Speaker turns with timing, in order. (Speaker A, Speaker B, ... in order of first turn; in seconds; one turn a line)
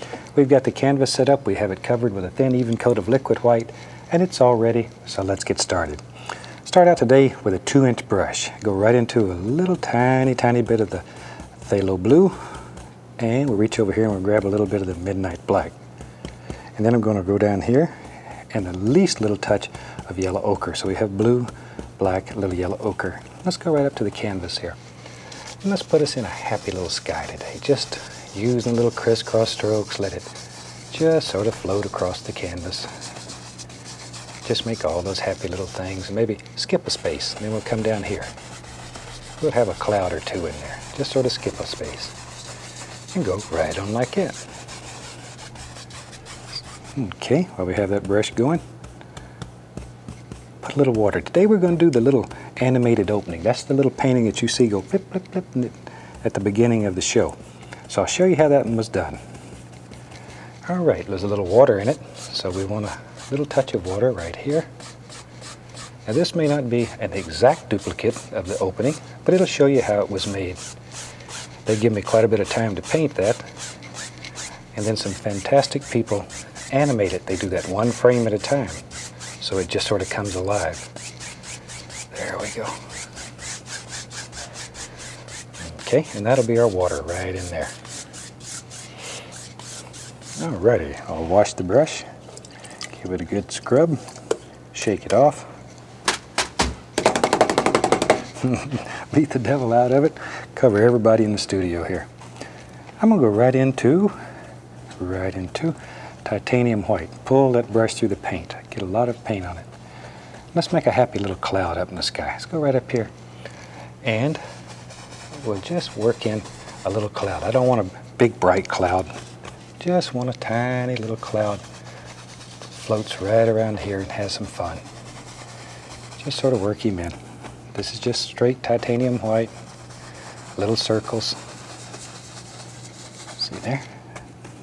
Speaker A: 0.3-6.0
Speaker A: 6.7-11.0
Speaker A: 11.6-12.5
Speaker A: 13.2-15.8
Speaker A: 16.8-18.0
Speaker A: 18.5-24.8
Speaker A: 25.6-30.3
Speaker A: 30.9-32.9
Speaker A: 34.4-38.3
Speaker A: 39.4-42.1
Speaker A: 43.1-44.4
Speaker A: 46.9-48.6
Speaker A: 50.6-57.4
Speaker A: 57.9-59.2
Speaker A: 60.7-64.7
Speaker A: 66.1-70.6
Speaker A: 71.7-73.5
Speaker A: 74.8-78.8
Speaker A: 79.4-80.9
Speaker A: 82.1-82.8
Speaker A: 85.6-87.7
Speaker A: 90.4-92.1
Speaker A: 92.9-94.0
Speaker A: 94.7-95.5
Speaker A: 98.4-102.1
Speaker A: 103.0-104.2
Speaker A: 105.0-109.7
Speaker A: 110.5-113.1
Speaker A: 114.0-114.4
Speaker A: 115.3-119.1
Speaker A: 119.8-121.6
Speaker A: 122.7-124.8
Speaker A: 126.2-127.2
Speaker A: 127.7-129.5
Speaker A: 130.6-131.4
Speaker A: 133.4-133.9